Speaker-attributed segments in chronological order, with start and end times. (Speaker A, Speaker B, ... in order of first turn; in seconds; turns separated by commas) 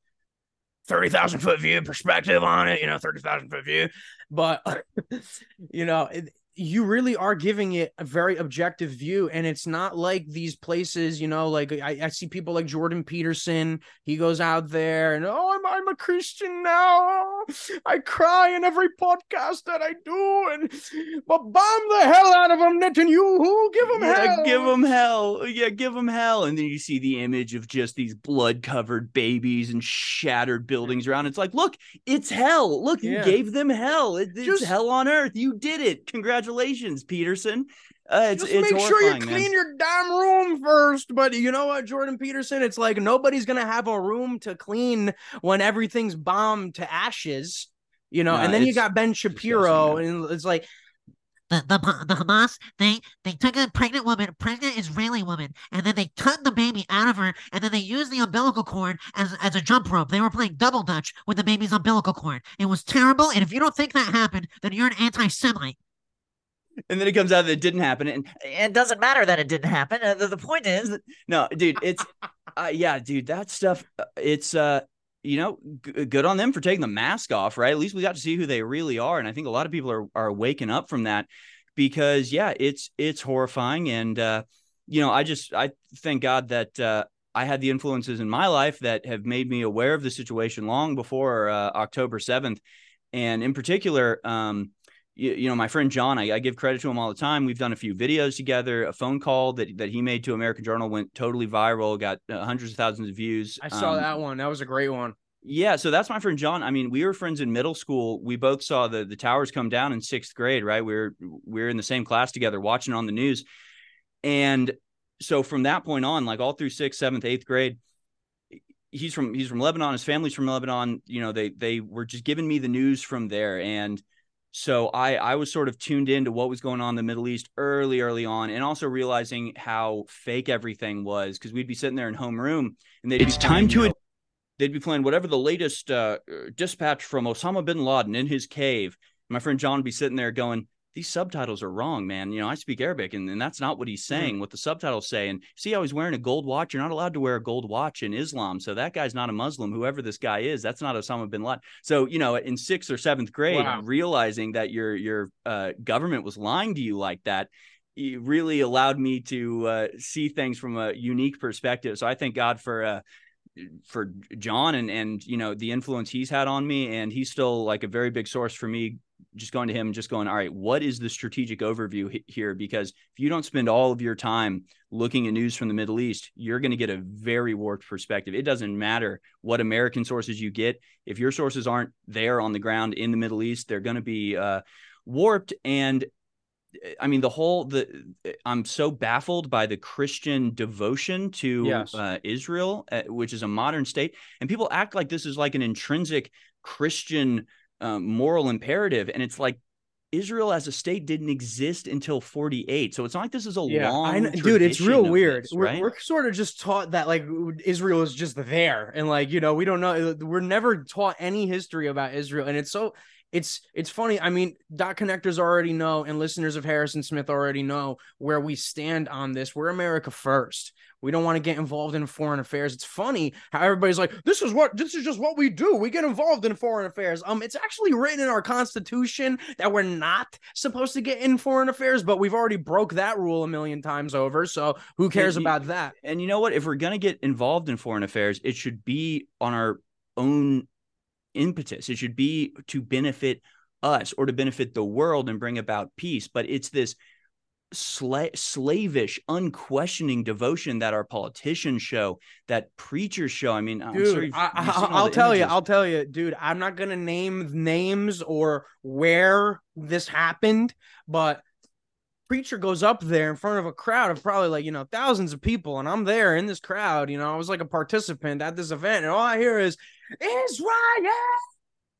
Speaker A: 0.9-24.7, Speaker B: 23.8-39.5, Speaker A: 33.0-33.4, Speaker A: 34.4-34.7, Speaker A: 38.3-50.7, Speaker B: 48.3-50.0, Speaker C: 51.5-65.8, Speaker B: 66.9-68.4, Speaker C: 68.4-71.0, Speaker B: 70.9-92.6, Speaker B: 93.1-104.1, Speaker A: 103.6-105.1, Speaker B: 105.4-113.4, Speaker B: 114.2-117.8, Speaker B: 118.9-124.0, Speaker B: 124.5-133.9, Speaker A: 133.2-133.9, Speaker B: 134.6-163.0, Speaker A: 144.1-144.3, Speaker A: 153.5-153.8, Speaker B: 163.6-186.1, Speaker B: 186.8-199.6, Speaker A: 191.6-192.0, Speaker B: 200.1-205.8, Speaker A: 203.7-235.9, Speaker B: 235.1-240.7, Speaker B: 241.3-246.9, Speaker B: 247.7-255.6, Speaker A: 253.9-261.4, Speaker A: 262.3-271.4